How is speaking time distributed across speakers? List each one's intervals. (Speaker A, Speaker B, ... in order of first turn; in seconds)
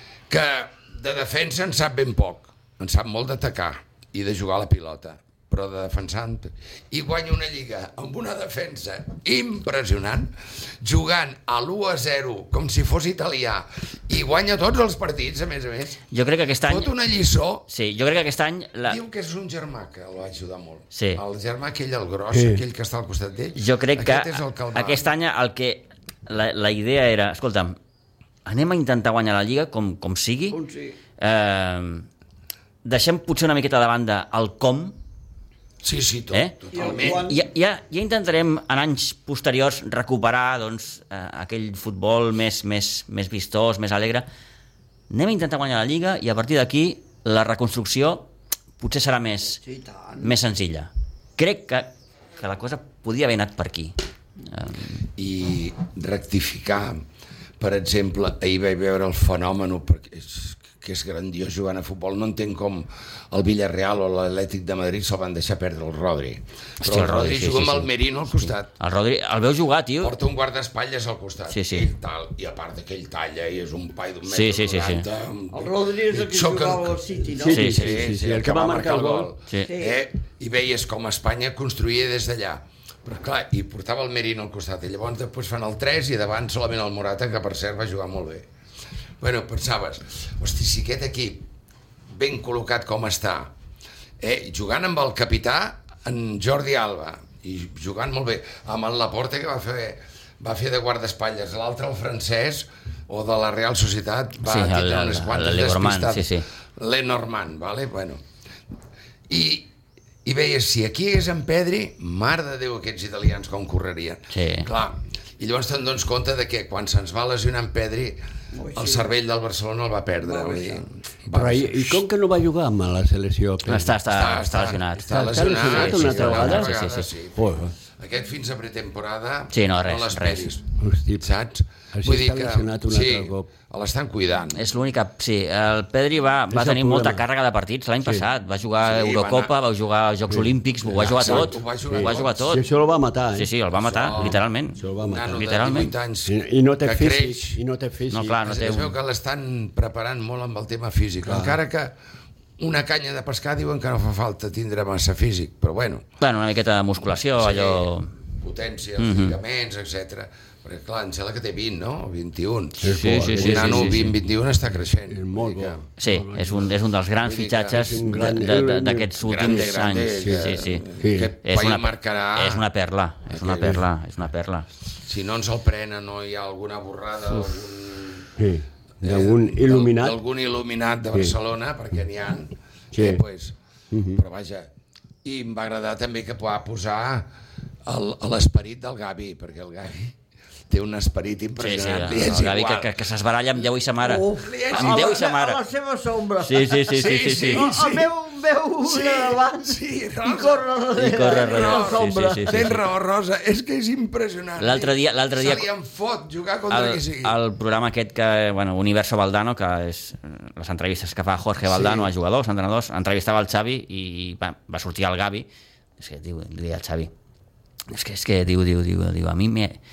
Speaker A: 0.3-16.0, 16.7-17.7, 18.9-25.1, 35.8-37.3, 55.1-57.0, 57.6-68.7, 70.0-77.0, 77.5-88.5, 89.2-91.5, 92.1-93.5, 94.2-108.2, 109.3-109.7, 110.2-118.2, 118.7-122.0, 124.0-134.6, 138.8-139.5, 141.0-142.6, 143.8-144.4, 145.0-147.6, 148.4-151.9, 152.6-156.0, 157.4-165.8, 167.2-167.8, 169.2-172.6, 173.3-173.8, 175.0-178.3, 179.0-183.6, 184.1-184.7, 185.2-187.3, 187.8-190.1, 190.7-193.0, 194.4-195.3, 196.9-198.1, 198.8-207.3
Speaker B: 16.1-16.9, 17.7-19.0, 20.9-21.2, 23.5-27.8, 28.4-30.6, 31.2-32.1, 32.8-34.9, 36.3-44.3, 45.1-48.3, 48.8-49.6, 50.2-54.0, 54.5-55.0, 66.8-70.1, 71.5-71.9, 74.2-75.1, 77.5-77.9, 104.4-106.4, 114.3-114.7, 123.7-127.1, 129.5-130.5, 134.5-142.6, 143.3-145.9, 148.1-148.9, 156.2-158.1, 159.0-159.4, 162.8-164.1, 166.0-170.8, 171.4-174.7, 191.6-195.6, 196.4-197.7, 200.9-202.8, 204.6-205.7, 206.7-215.5, 216.0-217.1, 217.9-219.8
Speaker C: 22.3-22.6, 77.3-79.3, 121.3-124.0, 125.1-127.7, 130.8-131.2, 131.9-133.5, 136.5-137.2, 140.3-143.5, 144.0-145.5, 146.2-148.8, 151.2-151.6, 162.8-164.2, 164.8-166.7, 167.7-169.1, 170.2-171.3, 178.4-180.2, 182.9-183.2, 183.9-184.2
Speaker D: 30.5-30.9, 36.7-37.4, 49.6-50.3, 75.5-77.7, 79.7-80.0, 118.5-119.1, 120.2-120.8, 194.0-202.8